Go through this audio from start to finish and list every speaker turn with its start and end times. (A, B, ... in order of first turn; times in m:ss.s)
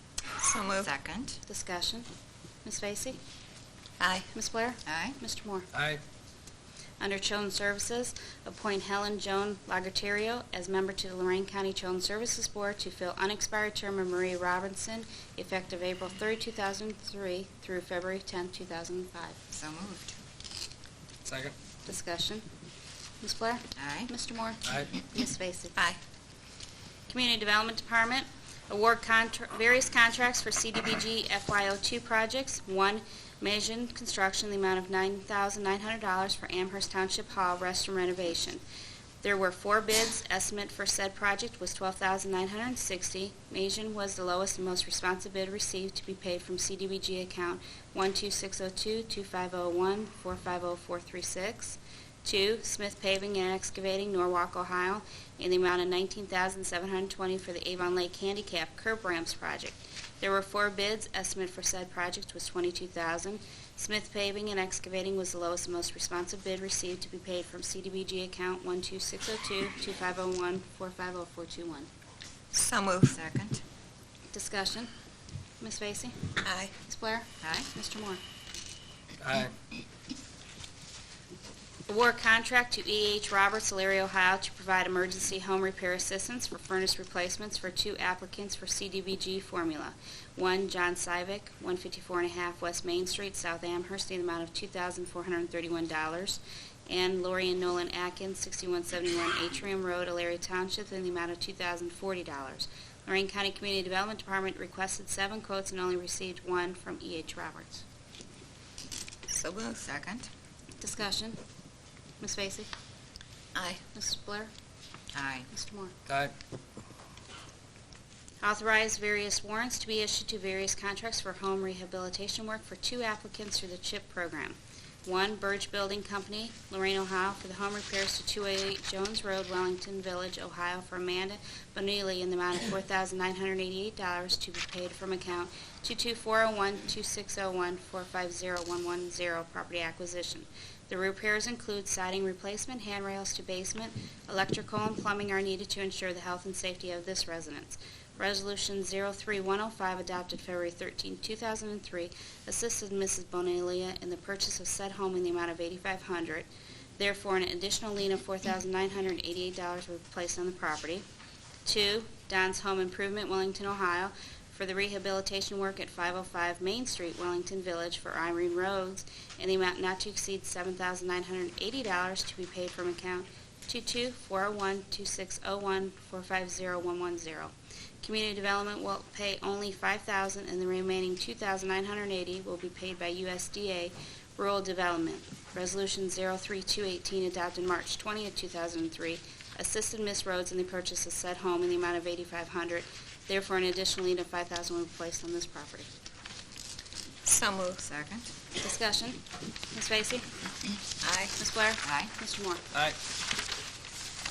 0:00.4-0:00.9 A
0:00.8-0:01.4 B
0:01.5-0:02.1 C
0:02.6-0:03.2 C
0:04.0-0:04.3 A
0:04.3-0:05.7 C
0:04.9-0:05.2 B
0:05.7-0:06.0 D
0:07.0-0:19.4 C
0:19.5-0:20.2 B
0:21.2-0:21.6 D
0:21.9-0:22.5 C
0:23.2-0:25.8 C
0:23.8-0:24.1 B
0:24.6-0:24.9 D
0:27.1-0:38.6 C
0:39.2-1:11.9 C
1:12.5-1:13.2 A
1:13.1-1:13.6 B
1:14.3-1:14.9 C
1:15.6-1:16.3 C
1:16.4-1:16.7 A
1:16.8-1:18.2 C
1:17.4-1:17.7 B
1:19.2-1:19.6 D
1:21.9-1:47.8 C
1:49.3-1:49.8 A
1:49.8-1:50.3 B
1:50.8-1:51.4 C
1:52.2-1:52.7 C
1:53.6-1:53.8 A
1:53.9-1:54.5 C
1:55.1-1:55.5 B
1:55.5-1:55.9 C
1:56.1-1:56.3 D
1:58.4-2:41.0 C
2:41.6-3:15.9 C
3:17.2-3:17.9 A
3:17.9-3:18.3 B
3:18.6-3:20.3 C
3:21.0-3:21.4 A
3:21.4-3:22.6 C
3:21.8-3:22.1 B
3:22.7-3:23.0 D